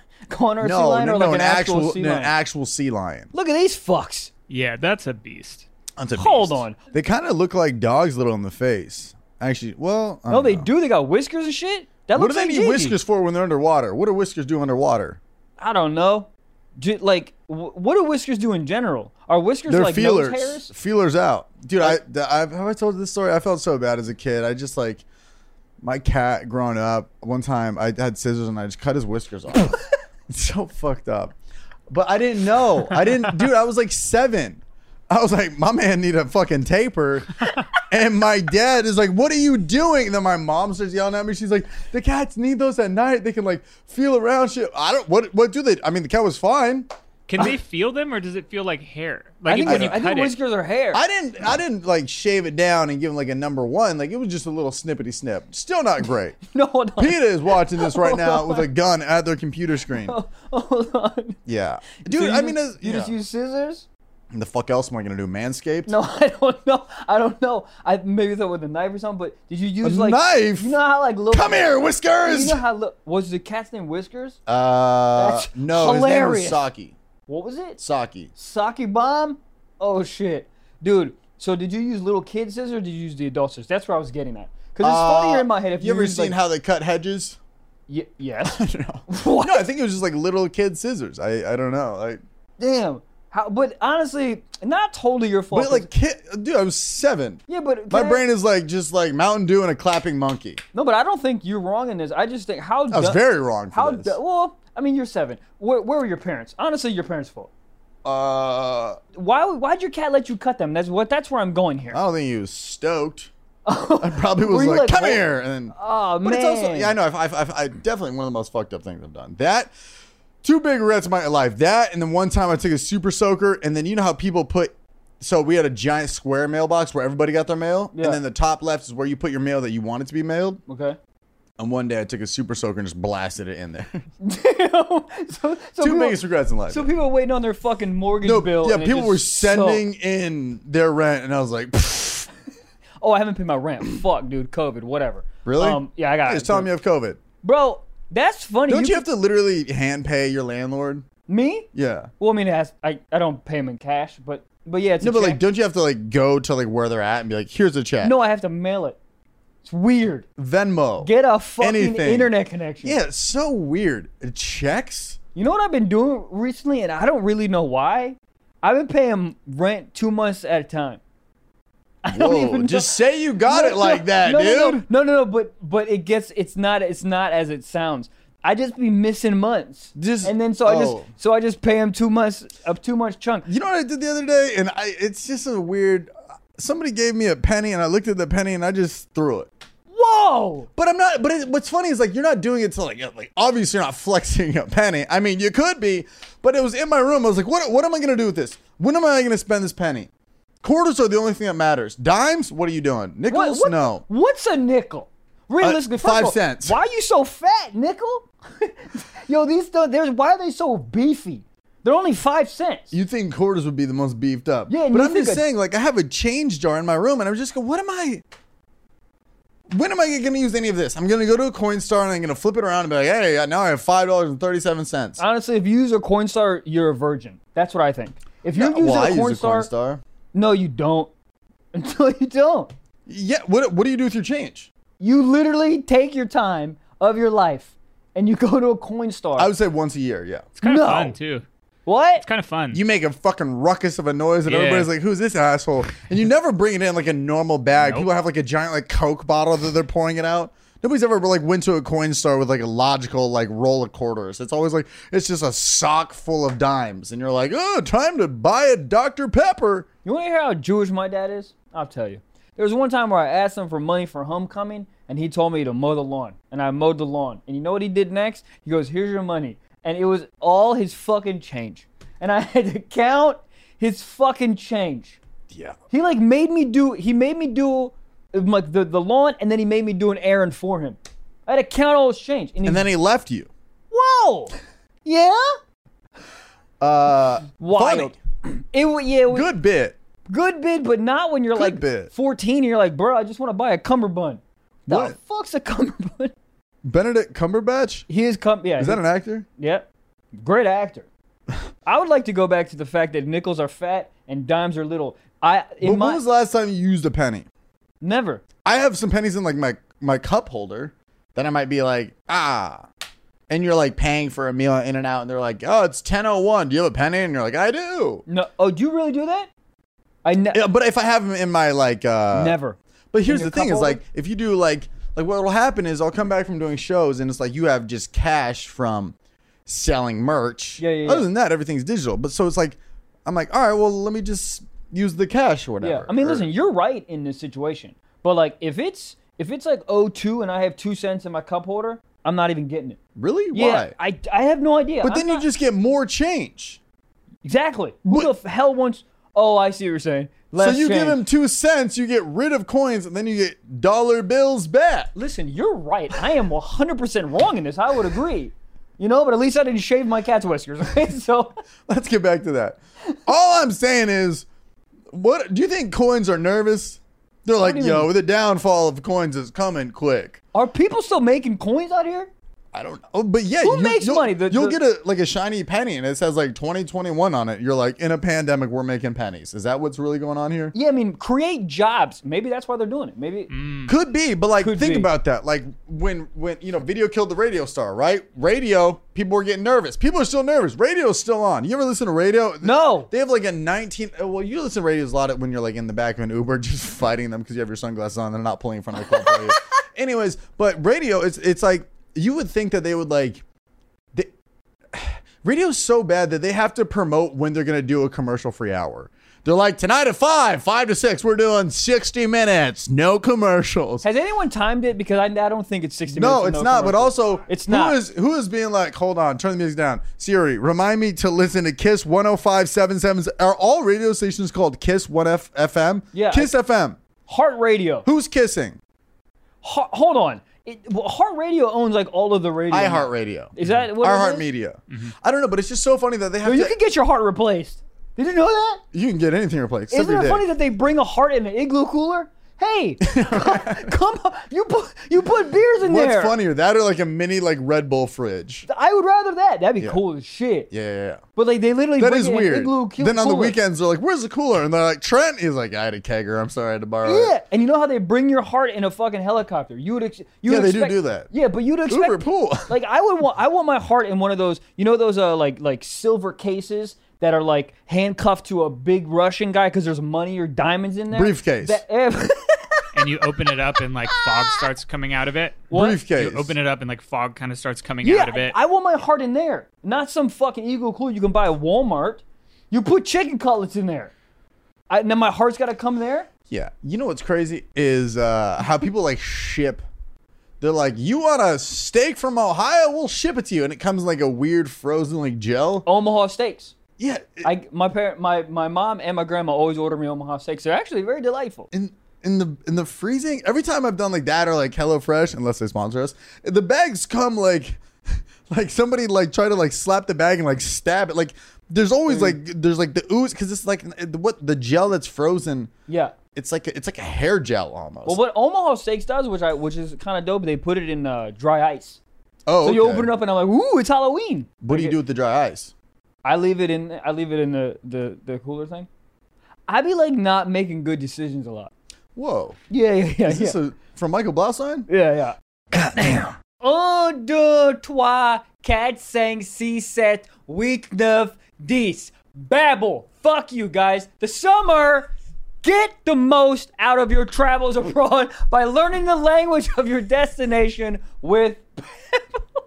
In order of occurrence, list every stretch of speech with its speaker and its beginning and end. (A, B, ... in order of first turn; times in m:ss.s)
0:00.3-0:02.3 A
0:00.6-0:03.3 B
0:03.3-0:04.3 A
0:04.5-0:05.7 C
0:06.0-0:10.7 B
0:06.2-0:06.8 A
0:10.3-0:13.0 A
0:12.1-0:15.2 B
0:15.6-0:20.7 A
0:19.7-0:25.0 B
0:25.8-0:29.8 B
0:30.3-0:31.3 B
0:31.9-0:46.9 B
0:47.3-0:50.4 C
0:49.5-0:51.0 A
0:49.6-0:50.0 B
0:50.9-0:56.4 B
0:56.5-0:58.7 A
0:57.0-1:00.2 B
0:59.9-1:01.4 A
1:01.4-1:03.1 B
1:02.0-1:03.9 A
1:04.3-1:05.9 B
1:05.9-1:14.4 A
1:09.8-1:10.8 B
1:11.3-1:12.6 B
1:14.5-1:16.9 B
1:15.2-1:16.6 A
1:17.3-1:17.8 A
1:17.8-1:18.3 B
1:18.4-1:26.4 A
1:24.8-1:27.4 B
1:27.9-1:29.6 A
1:28.4-1:32.2 B
1:32.6-1:35.9 A
1:35.5-1:40.6 B
1:37.5-1:38.2 A
1:40.7-1:43.2 A
1:42.9-1:44.1 B
1:43.7-1:47.5 A
1:48.0-1:49.0 B
1:49.1-1:52.0 A
1:51.9-1:53.3 B
1:53.7-1:55.2 A
1:54.0-1:59.7 B
1:55.8-1:56.9 A
2:00.4-2:10.6 B
2:07.9-2:08.2 A
2:10.7-2:11.0 A
2:11.6-2:14.0 B
2:14.2-2:16.2 A
2:15.8-2:16.9 B
2:16.7-2:19.8 A
2:18.2-2:22.3 B
2:23.0-2:26.7 A
2:25.4-2:27.2 B
2:27.4-2:29.0 A
2:28.7-2:31.0 B
2:31.3-2:31.7 A
2:31.7-2:32.1 B
2:32.2-2:35.4 A
2:35.0-2:38.1 B
2:38.0-2:39.0 A
2:39.6-2:40.3 A
2:40.4-2:42.3 B
2:41.0-2:43.0 A
2:42.8-2:45.2 B
2:45.4-2:51.0 A
2:52.0-2:52.9 A
2:52.1-2:54.8 B
2:53.4-3:03.5 A
2:59.9-3:01.1 B
3:03.5-3:09.5 B
3:09.9-3:10.7 A
3:10.8-3:20.1 B
3:20.6-3:24.0 B
3:23.3-3:32.9 A
3:25.6-3:26.8 B
3:32.9-3:38.2 B
3:34.7-3:35.4 A
3:39.7-3:45.2 B
3:45.2-3:49.7 A
3:48.5-3:50.0 B
3:50.3-3:51.1 A
3:51.7-3:52.7 A
3:53.1-3:54.7 B
3:55.0-3:59.5 A
3:59.4-4:00.4 B
4:00.6-4:01.4 C
4:00.6-4:01.2 A
4:01.9-4:02.2 A
4:02.2-4:02.8 C
4:02.7-4:19.9 B
4:04.4-4:04.9 C
4:07.8-4:08.1 C
4:20.0-4:35.2 A
4:35.5-4:35.8 B
4:35.9-4:42.9 A
4:42.6-4:43.5 B
4:43.9-4:44.5 A
4:45.0-4:45.6 A
4:46.8-4:48.1 B
4:47.6-4:49.5 A
4:49.3-4:50.0 B
4:50.3-4:56.3 A
4:51.5-4:52.1 B
4:54.9-4:55.2 B
4:56.8-4:58.1 B
4:58.1-4:59.0 A
4:58.8-4:59.5 B
4:59.6-4:59.9 A
5:00.4-5:01.1 A
5:01.9-5:06.2 A
5:05.8-5:07.5 B
5:08.0-5:08.4 A
5:08.6-5:12.8 B
5:13.5-5:18.2 B
5:18.3-5:19.5 A
5:20.2-5:20.6 A
5:20.5-5:22.6 B
5:22.3-5:22.8 A
5:23.1-5:29.1 B
5:23.3-5:24.0 A
5:29.6-5:36.5 B
5:30.8-5:31.3 A
5:35.8-5:43.0 A
5:43.2-5:43.9 B
5:43.5-5:45.5 A
5:45.0-5:46.8 B
5:47.4-5:51.2 A
5:50.6-5:55.1 B
5:55.1-6:01.5 A
6:01.9-6:04.5 B
6:05.1-6:10.4 B
6:07.6-6:08.1 A
6:10.5-6:12.3 A
6:12.7-6:20.8 B
6:13.6-6:14.8 A
6:20.8-6:23.5 A
6:23.5-6:23.9 C
6:23.9-6:43.4 B
6:24.6-6:25.1 A
6:32.6-6:33.1 A
6:39.1-6:39.4 A
6:44.9-6:54.1 B
6:54.0-6:58.0 A
6:56.1-7:07.0 B
7:06.1-7:06.5 A
7:07.3-7:08.1 A
7:08.0-7:08.8 B
7:09.6-7:14.4 A
7:12.7-7:16.7 B
7:16.4-7:18.8 A
7:18.9-7:20.4 B
7:19.9-7:26.3 A
7:23.0-7:23.9 B
7:25.8-7:28.7 B
7:28.7-7:30.7 A
7:30.7-7:31.2 B
7:31.4-7:33.6 A
7:32.0-7:37.3 B
7:37.0-7:52.9 A
7:40.5-7:41.3 B
7:41.9-7:42.7 B
7:51.1-7:51.8 B
7:52.9-7:58.6 C
7:54.0-7:54.7 A
7:55.7-7:56.0 A
7:55.7-7:56.5 B
7:58.0-8:04.1 A
8:04.9-8:06.3 A
8:06.5-8:09.8 B
8:10.6-8:15.9 B
8:15.9-8:16.8 A
8:17.0-8:17.5 B
8:17.4-8:21.7 A
8:21.7-8:27.8 B
8:28.5-8:35.7 B
8:32.1-8:32.4 A
8:35.9-8:36.1 A
8:36.3-8:38.2 B
8:38.1-8:42.0 A
8:42.5-8:43.1 B
8:42.6-8:45.0 A
8:44.6-8:45.7 B
8:46.2-8:48.9 A
8:49.7-8:51.7 A
8:52.2-8:52.6 B
8:52.7-8:53.6 A
8:53.2-8:54.9 B
8:54.9-9:05.1 A
8:56.0-8:56.3 B
9:05.6-9:12.4 A